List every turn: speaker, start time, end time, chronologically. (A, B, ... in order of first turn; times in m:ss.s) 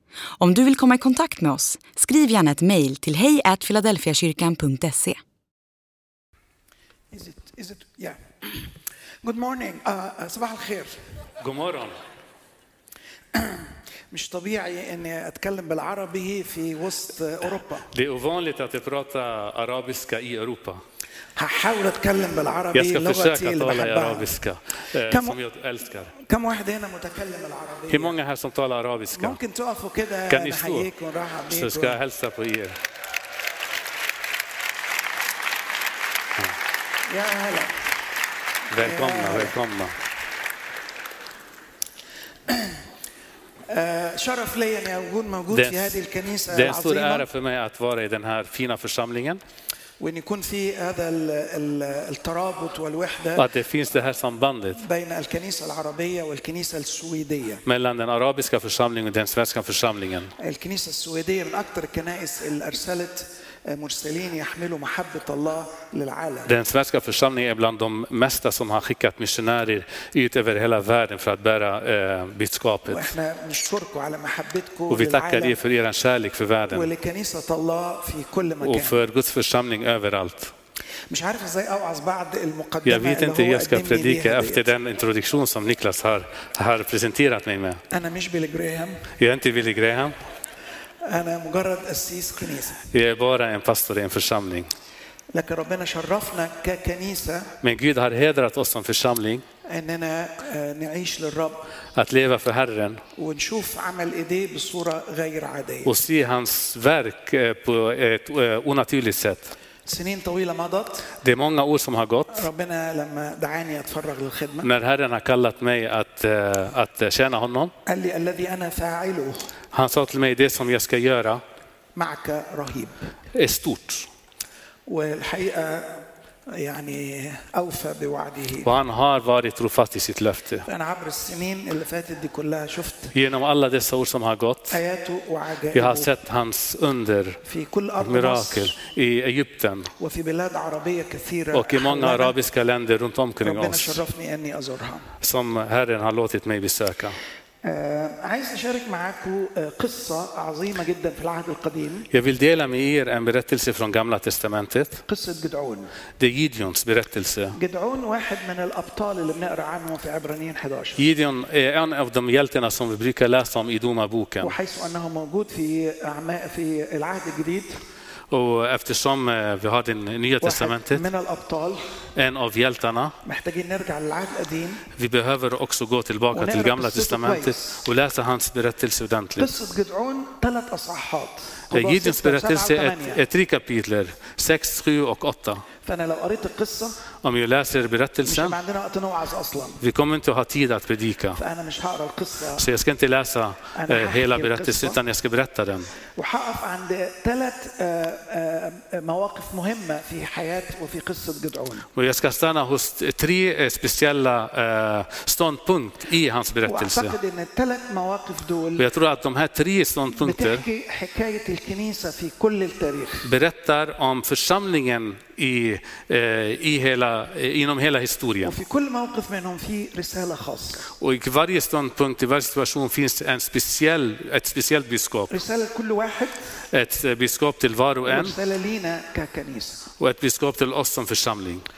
0:00.4-0:05.2 A
0:07.1-0:08.6 B
0:09.2-0:11.0 B
0:11.4-0:12.0 C
0:13.3-0:17.9 B
0:17.9-0:20.8 C
0:21.4-0:24.3 B
0:22.7-0:26.1 C
0:25.0-0:25.4 B
0:26.1-0:28.1 B
0:27.9-0:29.4 C
0:29.1-0:32.0 B
0:30.3-0:30.9 C
0:31.5-0:32.8 C
0:37.1-0:37.8 B
0:38.7-0:40.0 C
0:38.8-0:39.5 B
0:42.5-0:42.8 B
0:43.7-0:47.2 B
0:45.5-0:46.0 C
0:46.5-0:49.4 C
0:50.0-0:53.4 B
0:53.4-0:54.8 C
0:54.8-0:57.6 B
0:57.6-1:00.3 C
1:00.4-1:06.5 B
1:06.5-1:13.1 C
1:12.9-1:15.6 B
1:14.9-1:16.9 C
1:16.7-1:19.0 B
1:18.6-1:20.5 C
1:21.1-1:24.7 B
1:22.8-1:27.8 C
1:27.9-1:29.1 B
1:29.2-1:30.2 C
1:31.0-1:32.8 B
1:32.9-1:34.7 C
1:35.3-1:37.5 B
1:37.6-1:39.4 C
1:39.6-1:41.7 B
1:41.9-1:43.0 C
1:43.1-1:45.9 B
1:45.8-1:49.5 C
1:49.8-1:51.1 B
1:51.2-1:52.5 C
1:52.3-1:54.7 B
1:54.6-1:57.7 C
1:57.8-1:59.5 B
1:59.7-2:01.4 C
2:02.0-2:03.1 B
2:03.3-2:04.1 C
2:04.9-2:08.7 B
2:08.6-2:10.7 C
2:10.6-2:13.1 B
2:13.1-2:14.8 C
2:14.7-2:16.1 B
2:15.7-2:17.4 C
2:17.4-2:18.7 B
2:18.0-2:19.9 C
2:20.0-2:22.3 B
2:21.5-2:24.0 C
2:23.4-2:25.1 B
2:25.2-2:27.2 C
2:27.6-2:32.1 B
2:32.1-2:35.0 C
2:35.1-2:35.9 B
2:36.2-2:37.6 C
2:37.5-2:41.0 B
2:41.0-2:44.6 C
2:44.4-2:47.8 B
2:48.3-2:51.0 C
2:50.4-2:51.9 B
2:52.1-2:53.2 C
2:53.2-2:54.8 B
2:54.9-2:59.5 C
2:56.3-2:57.8 B
2:59.4-3:03.2 B
3:01.7-3:05.6 C
3:05.8-3:07.0 B
3:07.2-3:08.6 C
3:08.2-3:09.8 B
3:09.8-3:11.4 C
3:11.3-3:12.6 B
3:12.6-3:15.9 C
3:13.7-3:15.0 B
3:16.1-3:21.9 B
3:21.9-3:27.1 C
3:26.6-3:28.8 B
3:28.8-3:30.6 C
3:30.2-3:33.3 B
3:33.2-3:38.6 C
3:38.4-3:40.9 B
3:41.0-3:45.3 C
3:45.3-3:46.5 B
3:46.7-3:48.4 C
3:48.0-3:49.9 B
3:50.0-3:51.6 C